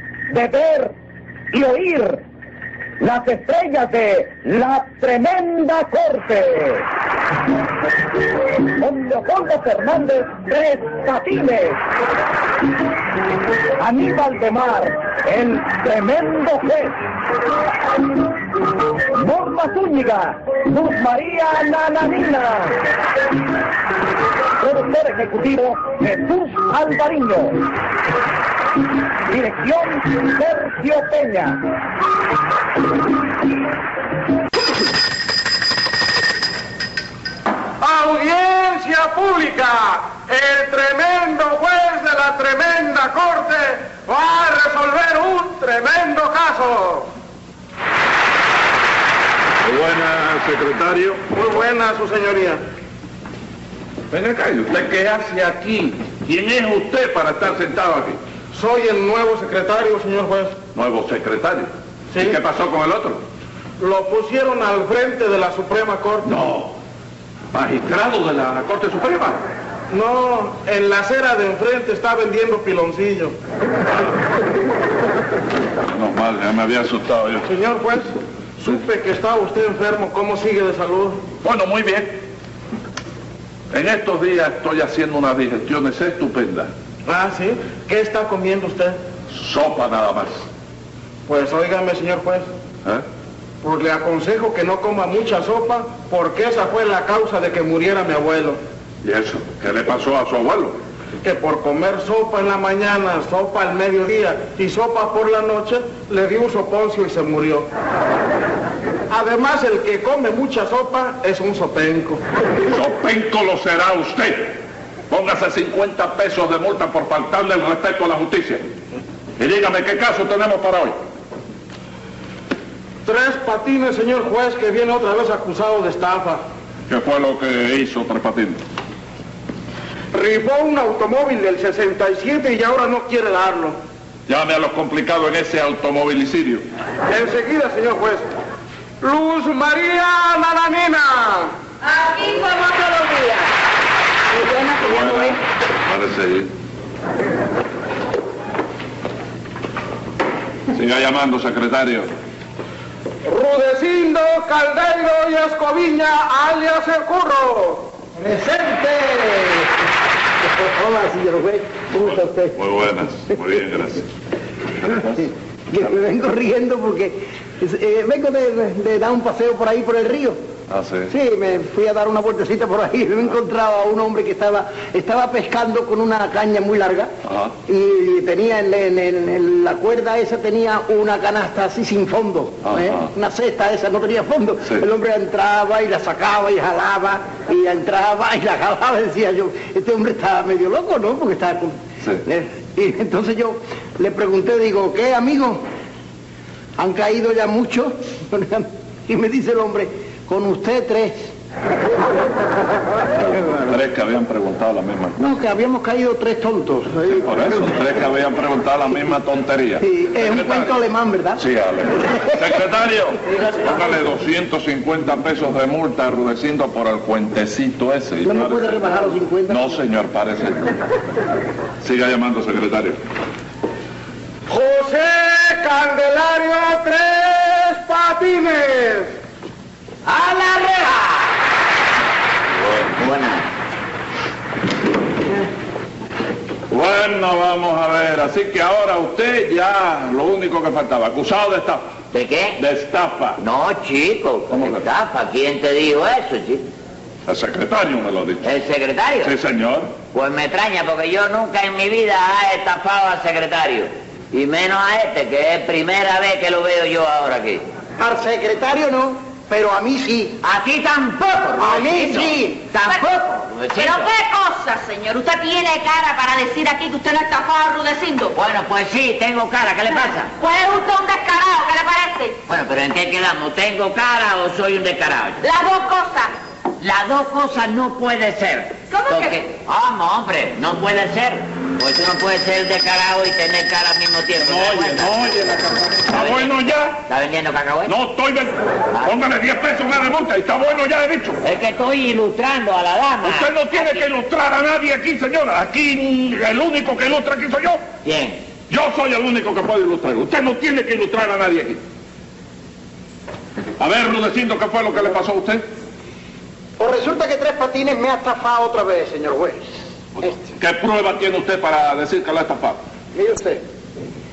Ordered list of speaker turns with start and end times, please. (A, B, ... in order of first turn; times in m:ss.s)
0:00.3-0:00.9 A
0:01.5-0:02.2 A
0:03.0-0:06.9 A
0:08.6-0:11.8 A
0:13.8-0:17.0 A
0:17.9-0:18.4 A
0:19.1-0:22.8 A
0:24.6-0:27.7 A
0:29.3-0:31.6 A
0:37.8-0:47.1 B
0:49.6-0:51.2 C
0:51.3-0:52.6 B
0:54.1-0:58.2 C
0:58.5-1:00.6 B
1:00.7-1:03.2 C
1:02.1-1:02.4 B
1:03.8-1:06.3 B
1:06.2-1:06.8 C
1:07.5-1:09.4 C
1:09.9-1:13.3 B
1:15.9-1:17.5 C
1:17.4-1:21.2 B
1:21.4-1:22.2 C
1:23.7-1:26.7 C
1:27.0-1:29.0 B
1:29.3-1:30.4 C
1:31.3-1:32.5 B
1:33.6-1:38.6 B
1:39.0-1:40.8 C
1:41.2-1:47.7 B
1:49.1-1:52.2 B
1:52.7-1:54.6 C
1:55.1-1:58.7 C
1:59.4-2:01.0 C
2:03.0-2:06.4 B
2:06.9-2:08.6 C
2:10.1-2:13.8 B
2:14.3-2:16.6 C
2:17.1-2:18.3 B
2:19.0-2:21.5 B
2:21.8-2:23.5 D
2:24.3-2:25.4 D
2:24.8-2:26.5 C
2:30.7-2:32.1 C
2:33.2-2:37.9 B
2:38.2-2:39.8 E
2:40.4-2:42.6 E
2:42.5-2:44.1 C
2:44.8-2:45.3 C
2:44.9-2:50.4 E
2:50.7-2:51.1 C
2:51.1-2:57.1 E
2:57.3-2:57.5 C
2:57.7-3:15.6 E
3:02.6-3:03.1 C
3:16.8-3:21.3 E
3:23.2-3:25.2 C
3:25.2-3:27.8 E
3:27.2-3:30.7 C
3:29.8-3:31.4 E
3:31.4-3:38.8 C
3:32.1-3:32.6 E
3:38.2-3:39.8 E
3:39.5-3:40.8 C
3:41.8-3:43.0 C
3:44.5-3:49.1 B
3:50.1-3:51.4 F
3:53.0-3:53.5 F
3:56.7-4:02.0 C
4:02.1-4:02.6 F
4:02.6-4:03.4 C
4:03.4-4:06.7 F
4:04.5-4:04.8 C
4:07.3-4:08.5 C
4:08.4-4:09.3 F
4:09.2-4:10.0 C
4:10.1-4:17.6 F
4:18.0-4:20.4 E
4:20.4-4:24.1 F
4:21.6-4:22.7 E
4:23.8-4:28.4 D
4:28.3-4:30.3 F
4:30.4-4:32.4 D
4:32.5-4:35.4 F
4:35.4-4:36.3 D
4:36.8-4:45.3 F
4:38.9-4:39.4 D
4:44.4-4:47.0 C
4:46.1-4:46.5 F
4:47.0-4:47.9 F
4:47.9-4:51.4 C
4:51.4-4:53.5 F
4:53.2-4:57.8 C
4:58.0-4:58.4 F
4:58.7-5:01.8 C
5:03.8-5:05.6 C
5:06.8-5:10.3 E
5:10.2-5:12.8 C
5:13.1-5:13.6 E